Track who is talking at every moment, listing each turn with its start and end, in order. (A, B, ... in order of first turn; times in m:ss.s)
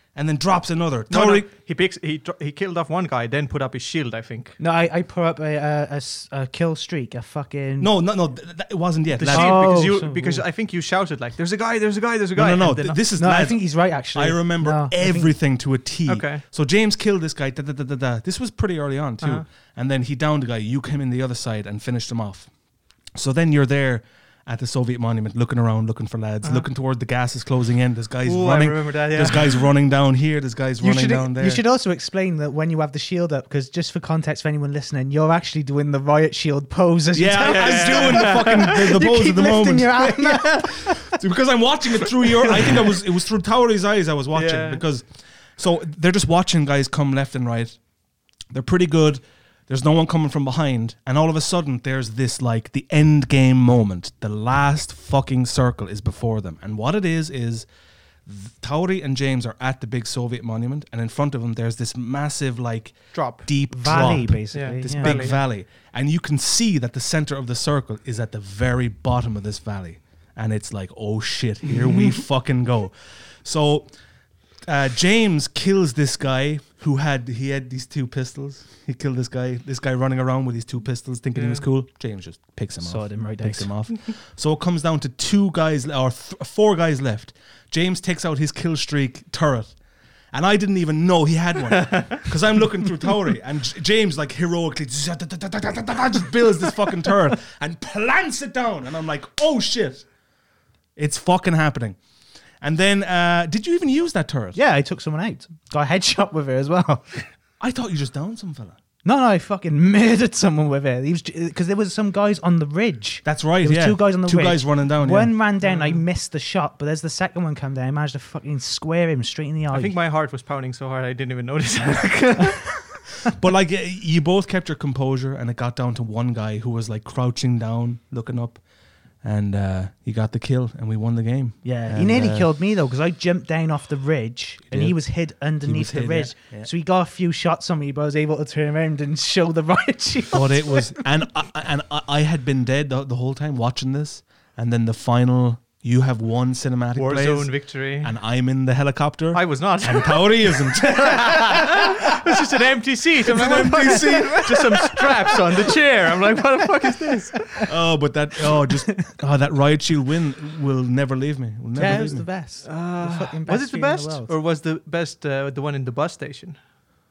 0:00.2-0:01.5 A
0:01.1-0:04.6 B
0:04.6-0:07.9 C
0:07.8-0:09.6 A
0:09.2-0:13.0 B
0:09.2-0:10.4 C
0:12.4-0:22.5 A
0:13.2-0:15.3 C
0:16.1-0:16.4 B
0:23.2-0:31.6 A
0:28.2-0:29.7 B
0:30.8-0:41.2 C
0:37.1-0:47.8 A
0:37.4-0:38.8 B
0:42.2-0:42.8 C
0:44.3-0:44.8 B
0:48.5-0:57.7 A
0:58.3-1:13.9 A
1:03.1-1:05.4 B
1:03.7-1:05.3 C
1:14.7-1:29.8 A
1:21.4-1:21.6 B
1:22.8-1:23.7 C
1:30.3-1:40.1 A
1:31.8-1:32.2 B
1:41.0-1:42.0 A
1:42.6-1:44.6 A
1:44.6-1:47.3 C
1:47.6-1:48.8 A
1:49.0-2:00.0 C
1:53.2-1:55.3 A
1:55.6-1:56.0 B
1:59.7-2:02.9 B
2:03.3-2:08.6 A
2:09.2-2:12.5 A
2:11.6-2:21.0 C
2:14.7-2:15.0 A
2:15.6-2:16.7 A
2:20.3-2:31.9 A
2:27.0-2:28.2 B
2:29.3-2:37.6 B
2:33.3-2:35.0 A
2:33.8-2:35.1 C
2:37.6-2:42.3 A
2:38.7-2:39.1 C
2:41.8-2:44.3 C
2:41.8-2:42.1 B
2:42.6-2:46.6 B